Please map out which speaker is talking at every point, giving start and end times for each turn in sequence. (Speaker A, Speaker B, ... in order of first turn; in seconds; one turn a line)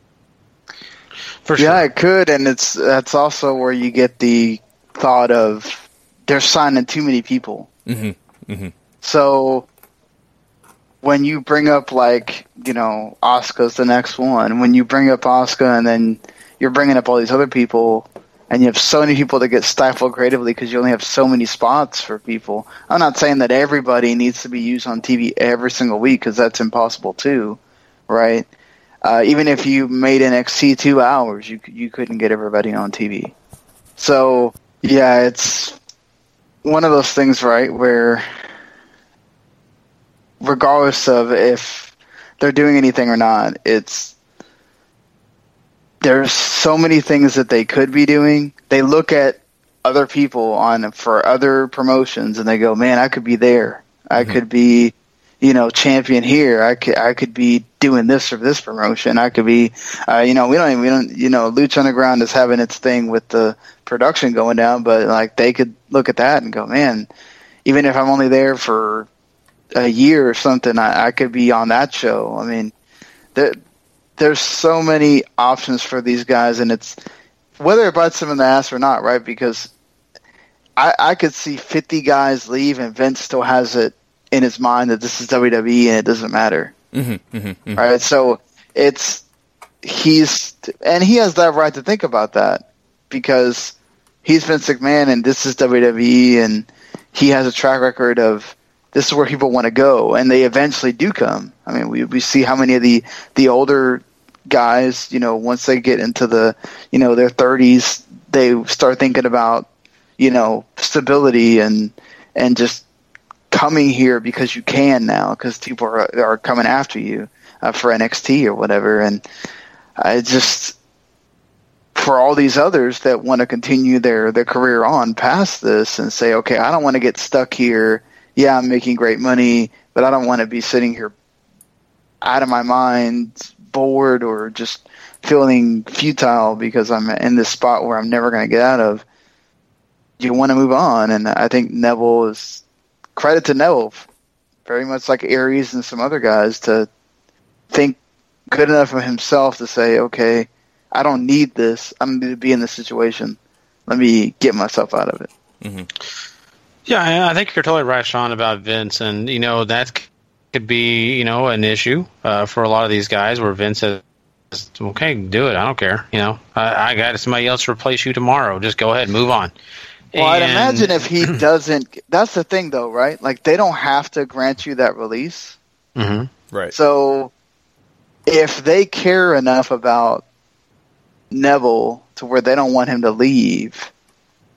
Speaker A: 1.4-1.8
Speaker B: 1.6-7.7
Speaker C: 7.9-8.7
Speaker B: 9.0-9.7
Speaker B: 11.0-28.5
Speaker B: 29.0-33.3
Speaker B: 34.0-35.8
Speaker B: 36.6-38.2
Speaker B: 40.4-44.1
Speaker B: 46.0-67.1
Speaker B: 67.6-69.1
Speaker B: 69.7-72.7
Speaker B: 74.2-77.0
Speaker B: 77.6-79.7
Speaker B: 80.8-86.7
Speaker C: 86.9-87.8
Speaker B: 87.8-89.2
Speaker B: 89.8-109.7
Speaker B: 110.2-112.8
Speaker B: 113.5-119.2
Speaker B: 120.0-120.7
Speaker B: 121.9-131.1
Speaker B: 132.2-139.0
Speaker B: 140.2-142.6
Speaker B: 143.2-144.1
Speaker B: 144.7-146.9
Speaker B: 147.7-148.0
Speaker B: 148.5-155.3
Speaker C: 155.6-155.9
Speaker A: 156.9-164.0
Speaker A: 164.5-169.5
Speaker A: 170.1-171.3
Speaker B: 170.1-175.6
Speaker A: 176.0-176.3
Speaker B: 176.7-177.3
Speaker B: 178.3-180.2
Speaker B: 181.3-183.9